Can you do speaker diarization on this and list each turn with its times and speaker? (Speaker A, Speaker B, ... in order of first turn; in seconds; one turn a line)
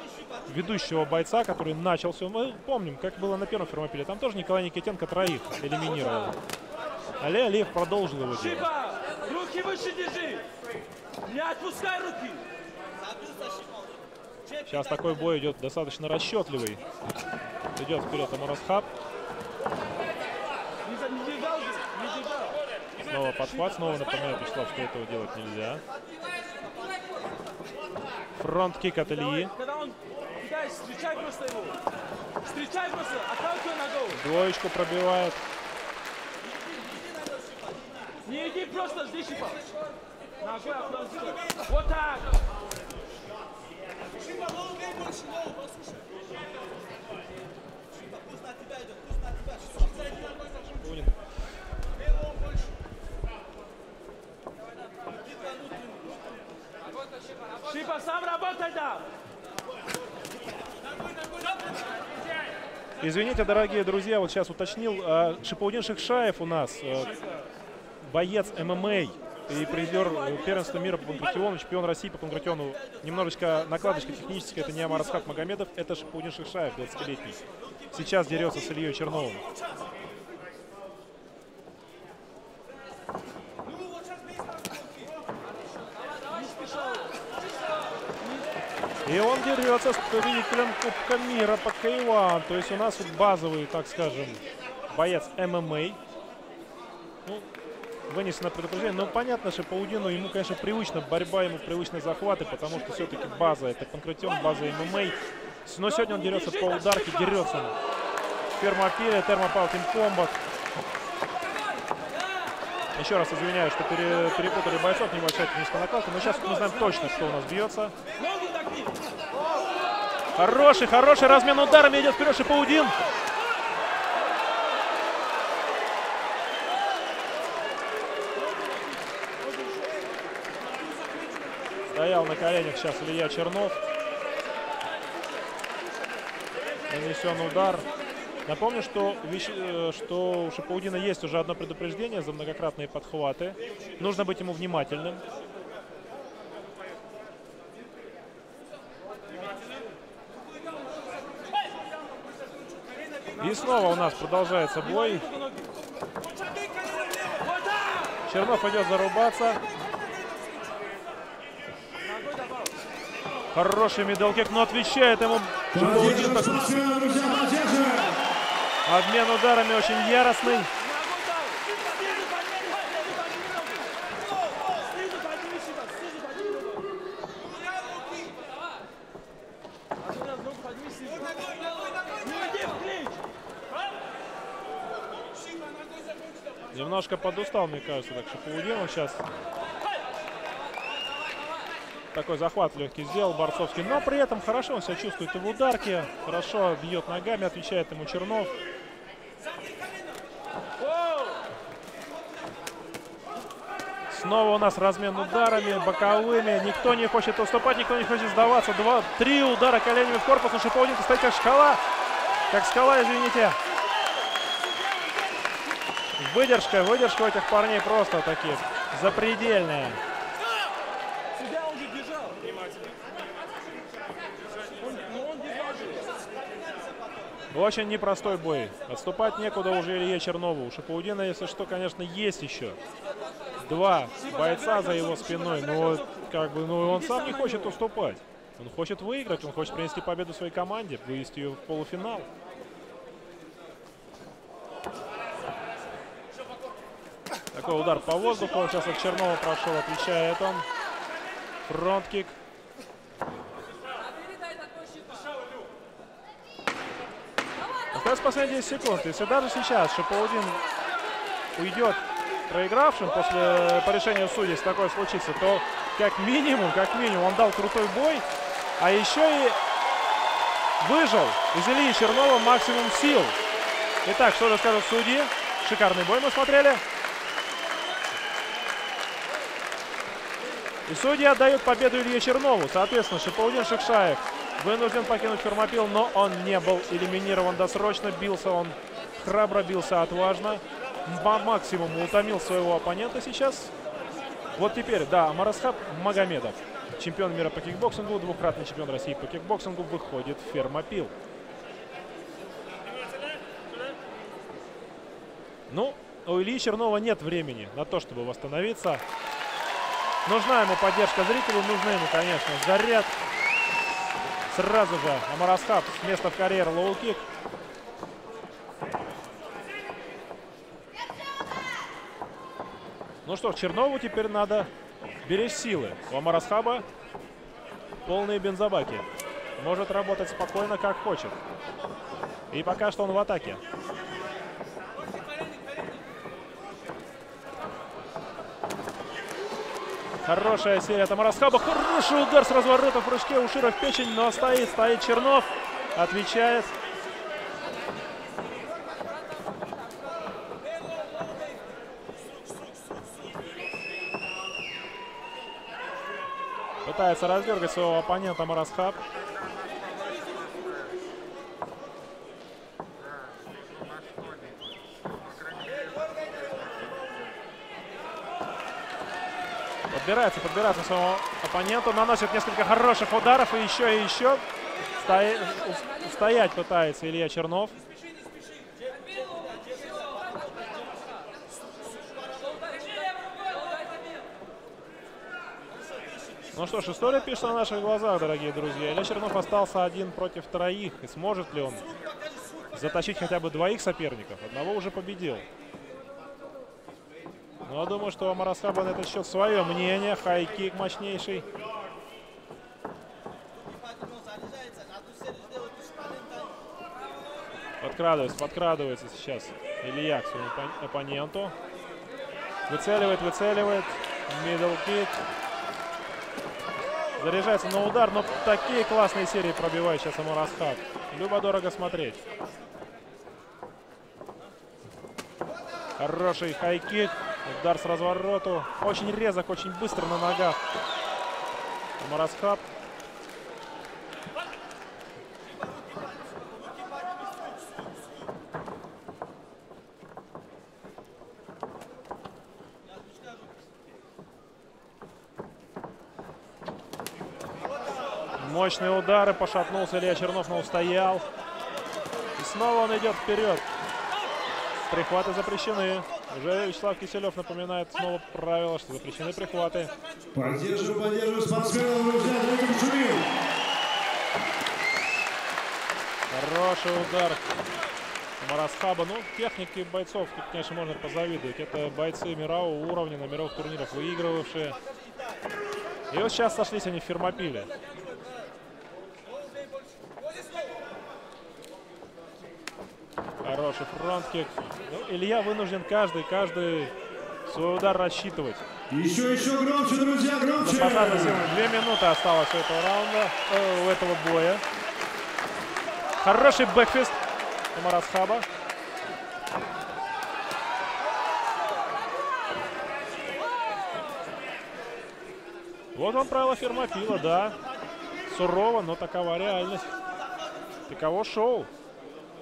Speaker A: 0.5-6.3
Speaker A: 7.2-8.7
Speaker B: 8.4-10.4
Speaker B: 11.2-12.4
Speaker A: 14.7-16.8
Speaker A: 17.8-18.9
Speaker B: 20.8-22.6
Speaker A: 23.1-25.8
Speaker A: 28.4-29.5
Speaker B: 29.1-31.8
Speaker B: 32.4-34.2
Speaker A: 34.1-35.4
Speaker B: 38.2-39.6
Speaker B: 40.4-42.4
Speaker A: 50.8-51.1
Speaker B: 57.6-59.0
Speaker A: 63.0-67.1
Speaker A: 68.0-77.4
Speaker B: 69.5-71.2
Speaker A: 77.9-79.4
Speaker B: 86.3-87.1
Speaker B: 88.2-88.5
Speaker A: 89.1-94.4
Speaker A: 94.9-96.0
Speaker A: 98.1-107.7
Speaker B: 105.9-107.4
Speaker A: 108.5-110.4
Speaker A: 113.0-118.0
Speaker B: 116.2-117.3
Speaker B: 118.2-119.0
Speaker A: 120.4-123.0
Speaker B: 128.5-128.8
Speaker A: 131.9-133.8
Speaker A: 136.9-137.8
Speaker A: 138.5-145.2
Speaker A: 153.4-155.2
Speaker B: 153.5-153.8
Speaker B: 154.8-155.7
Speaker B: 156.6-158.1
Speaker A: 158.3-159.6
Speaker B: 162.0-162.8
Speaker A: 163.5-166.8
Speaker C: 165.7-168.2
Speaker A: 168.9-170.7
Speaker B: 170.8-173.9
Speaker B: 174.6-176.9
Speaker B: 180.0-183.2
Speaker A: 186.7-189.2
Speaker A: 192.1-198.5
Speaker B: 200.8-201.4
Speaker A: 204.1-211.8
Speaker A: 212.5-213.6
Speaker A: 216.2-220.0
Speaker B: 221.3-222.4
Speaker B: 224.8-226.1
Speaker A: 227.5-232.8
Speaker A: 233.6-242.3
Speaker B: 234.2-236.2
Speaker B: 236.8-237.8
Speaker A: 247.5-250.7
Speaker A: 251.7-252.4
Speaker A: 257.9-260.6
Speaker A: 261.6-268.2
Speaker A: 268.8-269.6
Speaker A: 270.8-273.4
Speaker A: 274.1-276.8
Speaker A: 280.9-293.7
Speaker A: 294.6-301.1
Speaker A: 305.7-309.0
Speaker A: 310.3-313.1
Speaker A: 314.5-317.2
Speaker A: 323.2-324.7
Speaker A: 325.2-326.9
Speaker A: 328.1-329.1
Speaker A: 329.6-331.4
Speaker A: 332.5-333.6
Speaker A: 340.3-346.7
Speaker A: 356.9-359.0
Speaker A: 369.9-374.4
Speaker A: 375.0-377.8
Speaker A: 386.5-391.8
Speaker A: 392.7-395.4
Speaker A: 397.6-401.5
Speaker A: 407.8-411.5
Speaker A: 412.7-415.2
Speaker A: 417.2-422.2
Speaker A: 426.0-430.6
Speaker A: 432.0-432.6
Speaker A: 448.4-451.2
Speaker A: 452.4-453.7
Speaker A: 454.9-459.9
Speaker C: 460.3-463.3
Speaker A: 466.3-467.5
Speaker A: 468.4-474.8
Speaker A: 476.1-477.7
Speaker A: 483.4-486.9
Speaker A: 487.5-488.6
Speaker C: 488.9-491.6
Speaker A: 490.6-494.6
Speaker A: 496.2-497.2
Speaker A: 497.7-498.5
Speaker A: 505.9-507.6
Speaker A: 508.3-509.9
Speaker A: 510.9-511.7